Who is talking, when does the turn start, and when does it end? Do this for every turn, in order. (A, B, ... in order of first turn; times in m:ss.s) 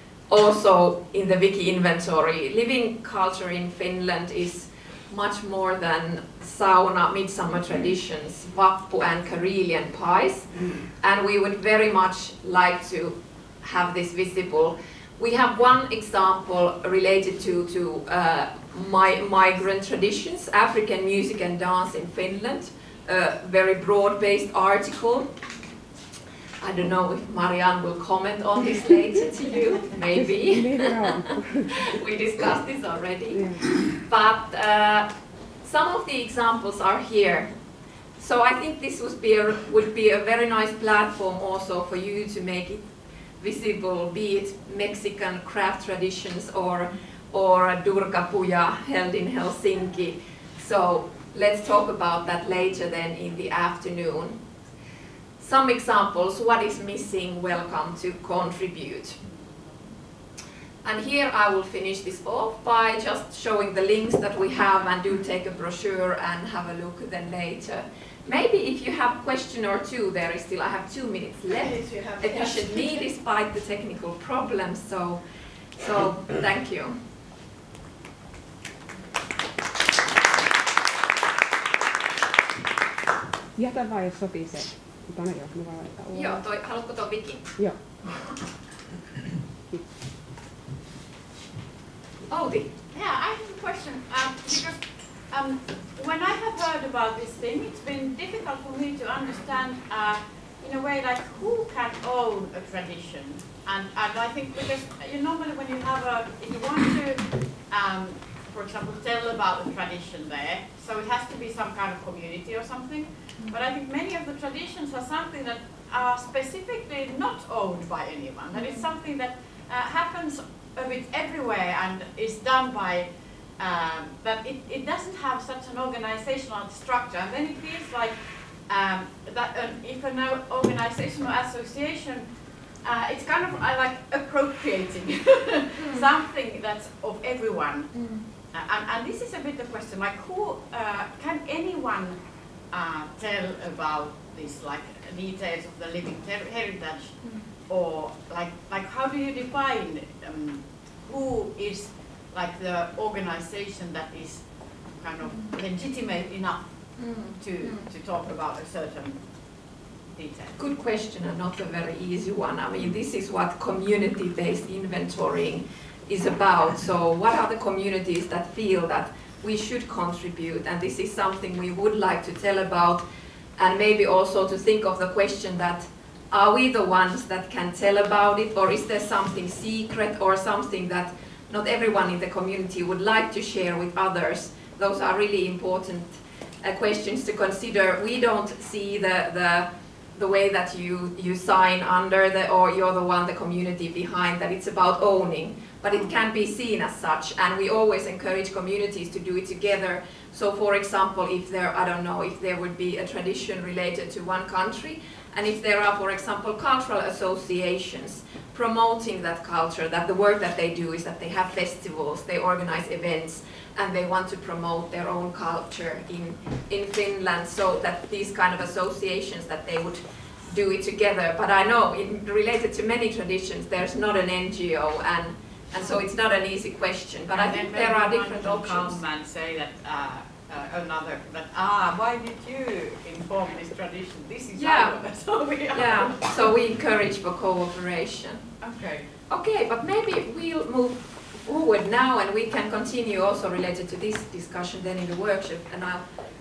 0:00.3-0:25.3 A
0:26.6-0:30.9 A
0:30.1-0:31.9 B
0:31.9-0:35.1 A
0:33.3-0:33.6 B
0:35.6-0:37.5 A
0:38.2-0:42.9 A
0:43.4-0:54.4 A
0:55.4-0:59.2 A
1:00.8-1:15.2 A
1:11.8-1:12.2 C
1:15.8-1:16.9 A
1:23.6-1:26.4 B
1:26.1-1:27.5 A
1:32.3-1:32.7 A
1:32.9-2:12.3 C
1:58.5-1:58.8 A
2:12.8-2:22.2 C
2:15.8-2:16.0 A
2:17.9-2:18.2 A
2:22.7-2:39.2 C
2:37.0-2:37.9 A
2:40.1-2:40.5 C
2:40.6-2:53.0 A
2:53.6-3:49.0 A
3:47.3-3:56.3 C
3:54.5-3:55.0 A
3:55.7-3:58.4 A
3:58.6-3:59.1 C
3:59.3-4:06.0 A